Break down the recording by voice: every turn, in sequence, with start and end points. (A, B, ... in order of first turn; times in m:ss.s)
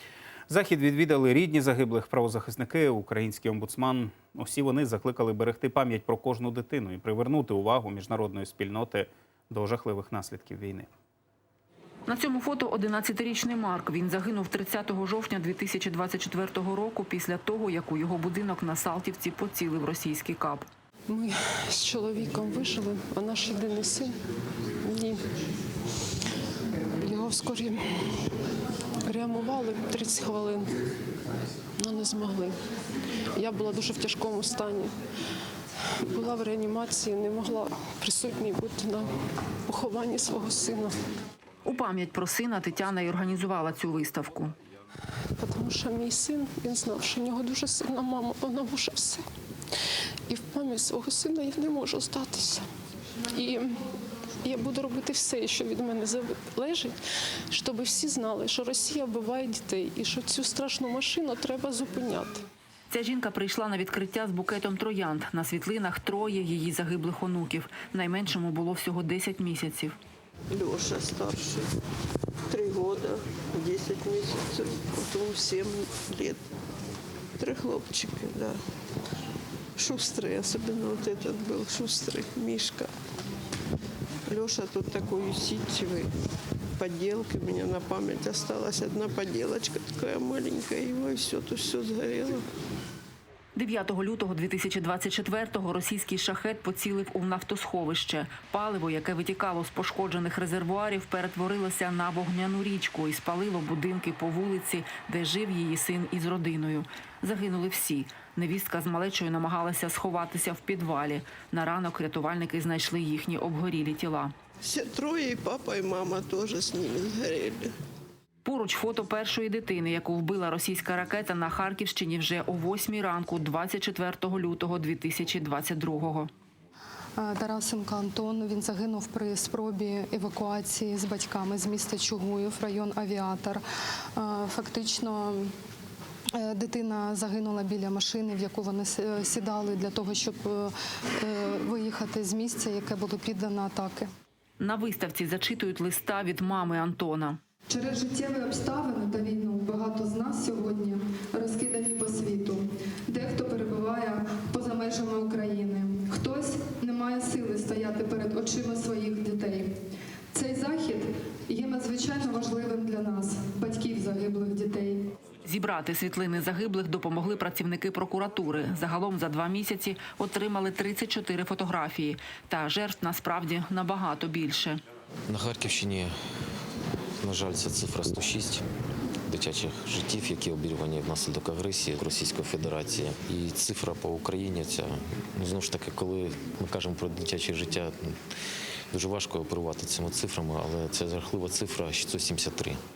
0:00.5-0:10.9 A
0:12.1-0:20.6 B
0:21.1-0:24.2 C
0:24.8-0:25.3 C
0:27.0-0:28.2 C
0:29.0-0:30.8 C
0:31.8-0:32.5 C
0:33.4-0:34.9 C
0:36.0-0:39.1 C
0:39.7-0:40.9 C
0:41.6-0:44.5 B
0:45.4-0:49.2 C
0:50.3-0:52.6 C
0:53.3-0:53.8 C
0:54.4-0:56.9 C
0:57.5-1:02.4 C
1:02.9-1:10.0 B
1:10.5-1:11.6 D
1:12.5-1:16.4 D
1:17.4-1:18.6 D
1:19.8-1:22.9 D
1:24.3-1:26.1 D
1:26.8-1:32.4 D
1:33.6-1:54.3 B
1:54.6-1:57.7 D
1:58.4-2:06.3 B
2:07.2-2:13.6 E
2:14.2-2:15.4 E
2:16.4-2:24.1 E
2:24.6-2:27.4 B
2:27.7-2:39.7 E
2:40.3-2:45.0 E
2:45.4-2:54.8 B
2:55.3-2:56.1 F
2:57.2-2:58.6 F
2:59.2-3:08.2 F
3:08.9-3:12.8 F